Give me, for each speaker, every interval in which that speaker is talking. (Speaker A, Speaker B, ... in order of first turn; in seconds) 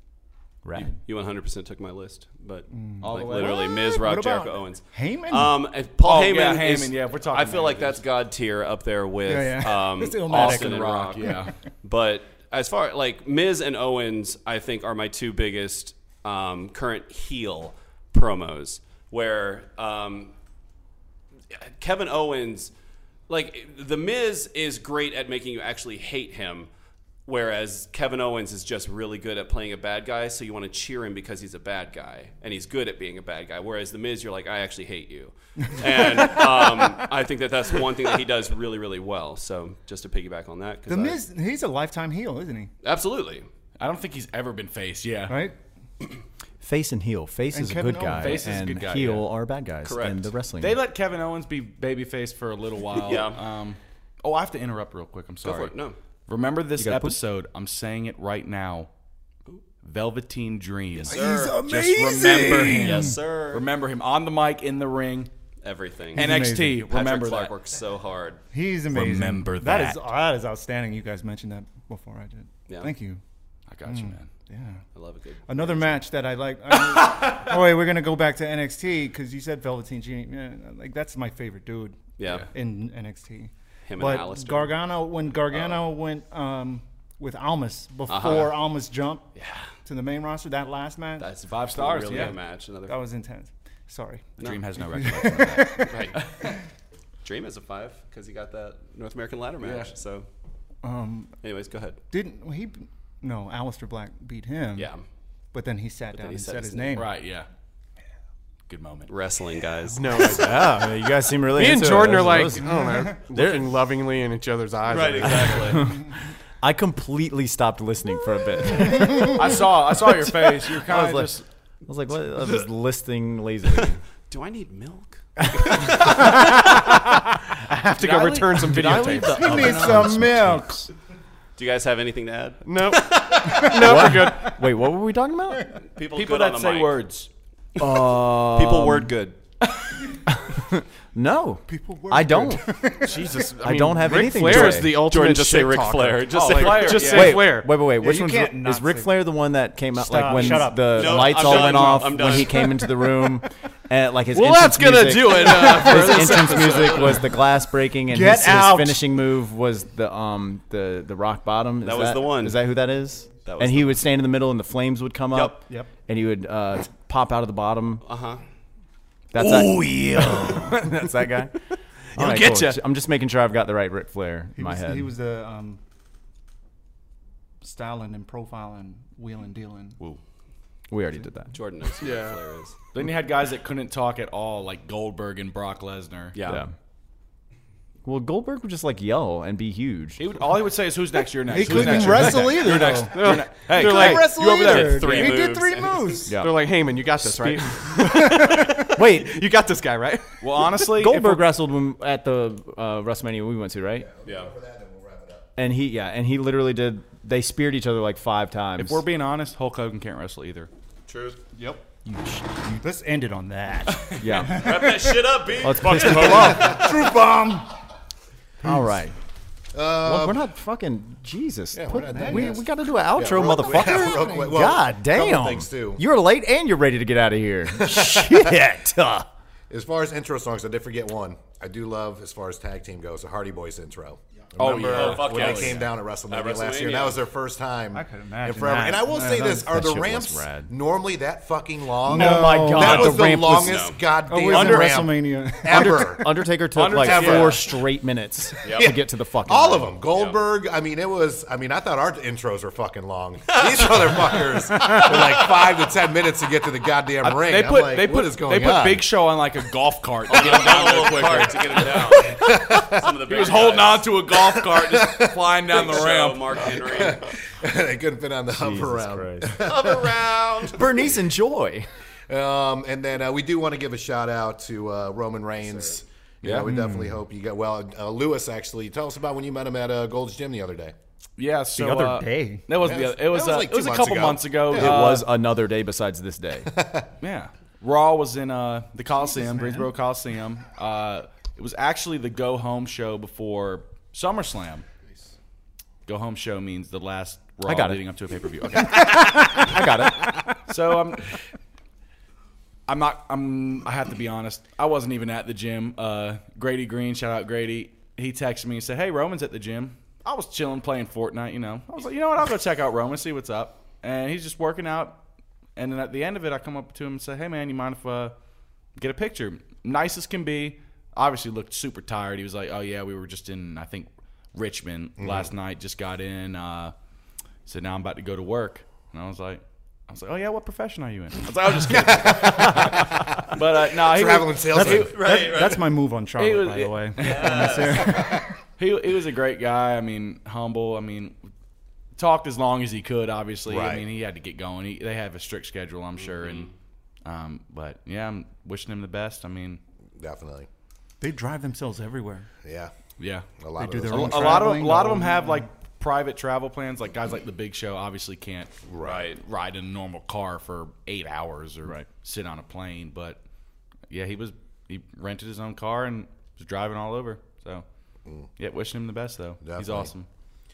Speaker A: 0.6-0.9, 46.6-50.8, 56.8-57.2, 110.3-113.6, 115.2-116.1, 116.6-119.4, 120.8-121.3, 121.8-124.0, 125.7-126.4, 128.8-130.2, 133.6-135.7, 137.8-139.1, 140.6-142.7, 143.6-144.9, 147.0-168.0, 169.3-171.5, 172.1-175.1, 180.9-181.5, 186.4-186.7, 188.0-190.2, 191.7-192.4, 196.3-196.6, 198.1-199.3, 200.9-204.1, 205.6-209.0, 214.2-215.1, 215.6-216.8, 218.6-219.1, 220.0-229.3, 239.1-240.7, 242.0-243.8, 245.6-250.0, 268.5-269.6, 270.7-271.9, 276.6-277.1, 284.7-286.7, 297.6-298.0, 298.7-300.5
Speaker B: 1.0-20.3, 21.5-22.7, 23.3-26.7, 27.2-41.2, 42.8-43.5, 49.8-50.3, 53.0-53.4, 55.4-56.0, 61.0-61.6, 62.1-63.7, 65.6-66.2, 66.8-68.4, 74.9-76.0, 82.2-82.5, 83.9-84.7, 85.5-85.8, 88.1-88.6, 89.3-89.7, 91.2-93.0, 95.7-96.2, 97.2-100.2, 101.4-102.0, 104.8-105.0, 106.1-107.1, 109.1-110.4, 114.9-115.8, 124.3-126.5, 131.6-133.6, 135.9-137.0, 137.8-139.4, 144.5-147.3, 150.8-152.9, 156.3-157.1, 161.8-162.6, 163.4-164.0, 168.0-168.4, 181.5-182.8, 186.3-186.6, 194.4-196.3, 204.2-204.5, 211.1-211.4, 214.4-216.9, 234.8-237.2, 242.8-244.0, 248.6-248.9, 250.1-250.4, 253.5-255.5, 260.3-264.1, 265.7-267.3, 269.6-270.8, 275.6-275.9, 334.9-335.9, 337.2-338.4, 346.2-346.7, 359.0-359.4
Speaker C: 2.7-5.6, 9.2-10.8, 35.9-36.4, 40.9-42.7, 45.3-45.5, 47.5-48.5, 61.1-63.2, 66.1-66.8, 68.5-73.2, 73.8-74.8, 75.5-89.3, 89.8-91.3, 92.9-96.0, 100.8-101.3, 102.1-104.9, 105.5-107.1, 112.7-113.2, 129.3-130.9, 133.5-134.5, 141.7-143.5, 147.9-149.2, 149.9-152.5, 158.1-159.1, 165.6-165.9, 174.6-175.8, 177.6-180.0, 191.5-196.3, 211.6-215.2, 215.9-217.7, 222.1-222.6, 223.8-224.6, 237.9-239.7, 242.0-243.2, 244.2-246.1, 281.8-282.7, 289.3-289.9, 335.1-338.6, 351.2-352.5, 353.8-355.6
Speaker D: 3.0-3.7, 6.0-8.0, 10.2-11.5, 43.8-45.4, 48.2-49.3, 50.6-55.7, 56.3-58.9, 59.8-65.3, 66.2-67.5, 68.9-70.0, 73.7-74.3, 91.4-92.3, 94.4-96.5, 99.6-99.9, 106.9-107.5, 108.7-109.1, 119.0-121.4, 127.9-130.6, 136.1-137.3, 146.3-147.5, 182.0-182.4, 182.9-186.6, 190.2-195.4, 200.4-201.5, 208.8-210.7, 234.6-235.9, 244.5-245.0, 246.7-247.8, 257.2-267.0, 276.4-276.7, 281.4-285.3, 287.2-294.8, 296.1-299.7, 300.6-301.3, 302.9-315.2, 315.8-318.3, 319.0-326.9, 327.6-335.5, 336.3-341.4, 342.1-346.7, 347.2-349.8, 353.2-353.5, 354.1-358.7, 359.4-363.4, 364.1-367.8, 368.6-370.3
Speaker E: 109.9-111.0, 111.5-115.8, 127.7-129.8, 132.6-134.5, 143.0-147.7, 154.3-157.4, 169.7-170.4, 172.2-172.8, 192.9-194.4, 196.3-200.4
Speaker F: 204.0-205.4, 219.7-220.4, 221.7-226.0, 227.9-228.5, 229.7-247.7, 248.7-259.1, 262.2-263.1, 264.3-266.1, 266.6-270.2, 272.3-280.9, 282.7-285.2, 286.6-287.1, 325.2-325.5, 333.9-335.2, 343.6-344.0, 350.2-350.7, 352.6-352.9, 353.6-354.8, 358.9-359.3, 369.6-370.1